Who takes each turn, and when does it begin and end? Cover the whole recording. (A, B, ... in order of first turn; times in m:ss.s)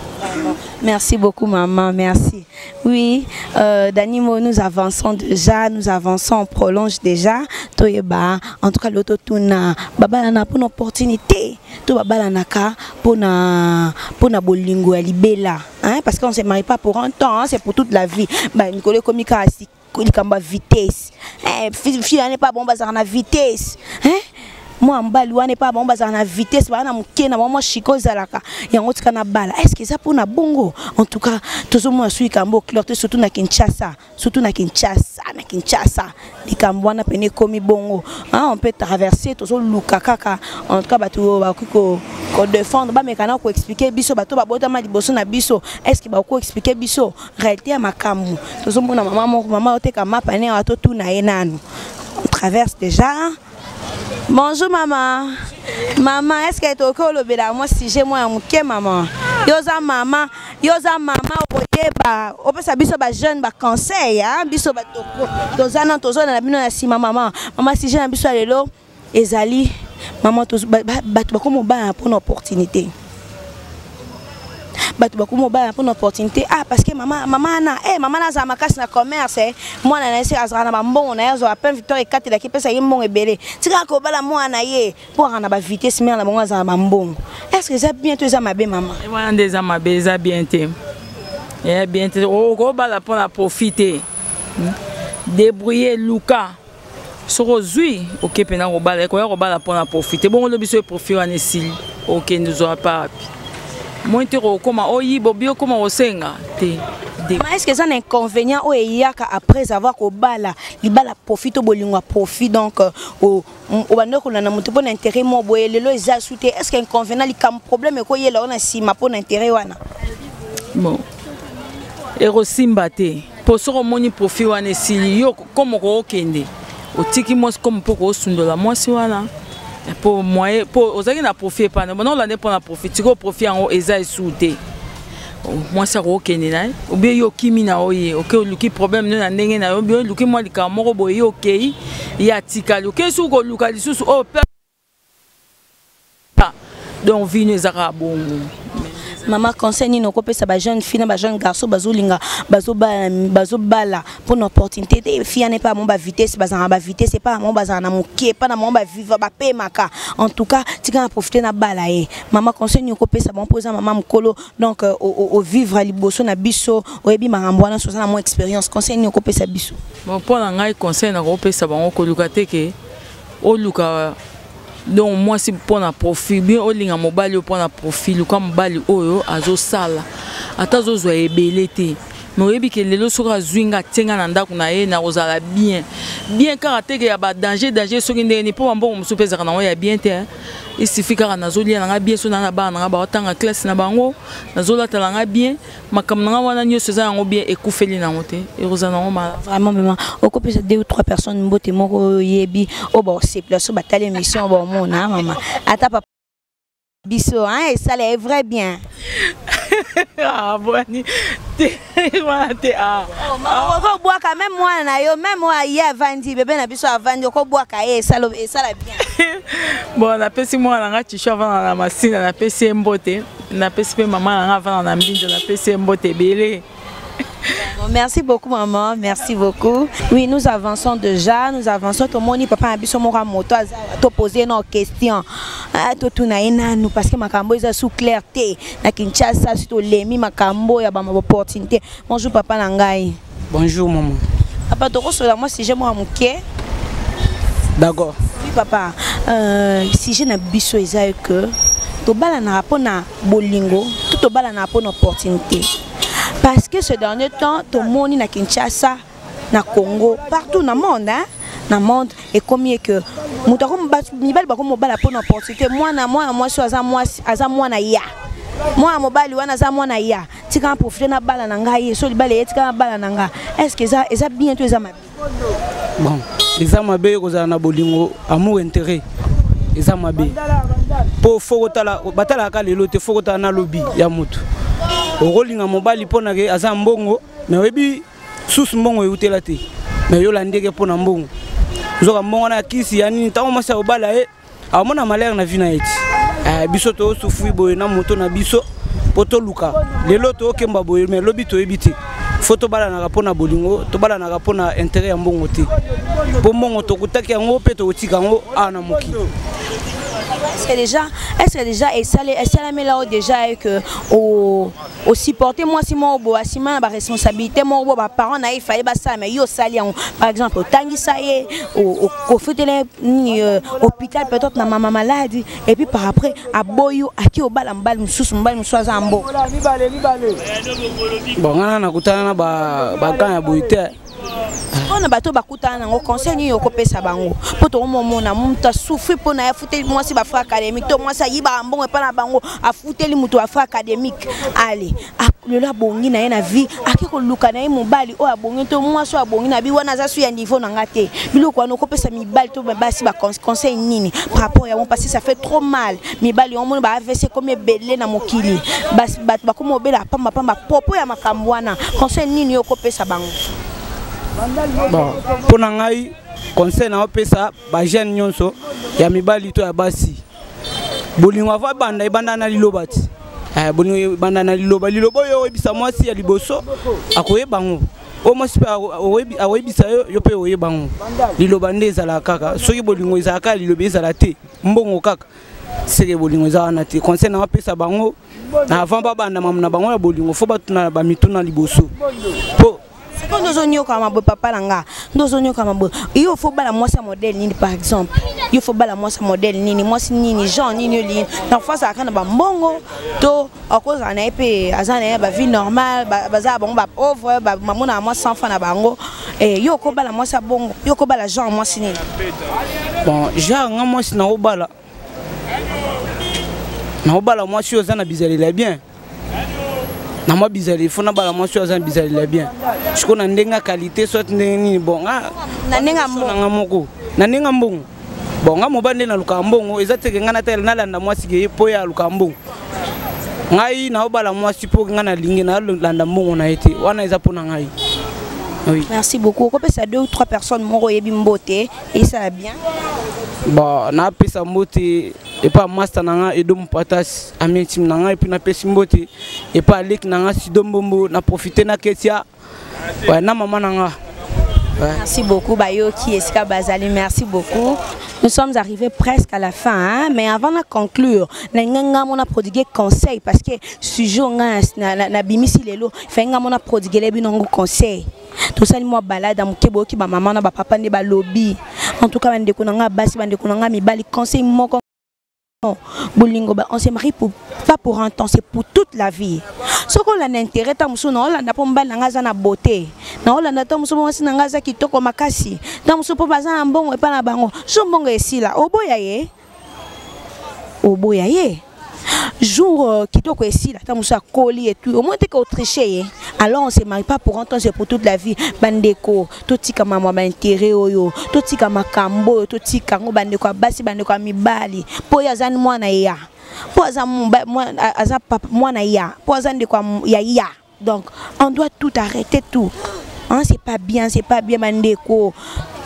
0:00.3-0:24.2 A
0:24.8-0:51.6 A
0:52.2-0:53.4 A
0:54.3-1:12.9 A
1:15.0-1:29.0 A
1:29.0-1:30.7 B
1:31.6-1:34.0 B
1:34.6-1:36.6 B
1:37.3-1:43.3 B
1:44.0-1:47.4 B
1:47.3-1:59.8 A
2:00.7-2:01.0 B
2:02.2-2:09.3 B
2:09.9-2:14.6 B
2:15.4-2:24.5 B
2:26.4-2:29.3 B
2:29.2-2:49.8 A
2:50.0-2:52.7 B
2:53.4-2:54.2 B
2:54.8-3:00.0 B
3:00.6-3:10.3 B
3:10.8-3:19.4 B
3:19.3-3:26.0 A
3:27.0-3:28.8 A
3:29.3-3:33.7 B
3:33.2-3:39.0 A
3:39.1-3:46.6 B
3:47.6-4:03.2 A
4:03.5-4:04.2 C
4:04.7-4:06.4 A
4:07.8-4:08.2 C
4:08.4-4:15.7 A
4:16.3-4:19.0 A
4:19.5-4:28.0 A
4:28.7-4:35.1 A
4:36.0-4:39.0 C
4:39.7-4:40.4 C
4:41.2-4:44.4 C
4:45.2-4:51.3 C
4:52.0-5:05.7 C
5:06.4-5:09.3 C
5:10.5-5:29.3 A
5:31.3-5:33.9 C
5:34.8-6:03.4 A
6:04.8-6:10.2 C
6:11.2-6:25.2 C
6:25.8-6:31.9 C
6:32.6-6:32.8 C
6:33.2-6:52.0 A
6:53.0-6:54.7 C
6:57.0-6:58.8 C
7:00.2-7:07.9 C
7:05.6-7:06.4 A
7:08.4-7:12.4 C
7:13.5-7:17.7 C
7:18.8-7:22.6 A
7:23.4-7:32.2 C
7:33.0-7:34.0 C
7:34.9-7:54.8 A
7:55.6-8:09.3 A
8:10.8-8:11.6 A
8:12.1-8:26.2 A
8:26.7-8:32.7 A
8:33.3-8:35.4 A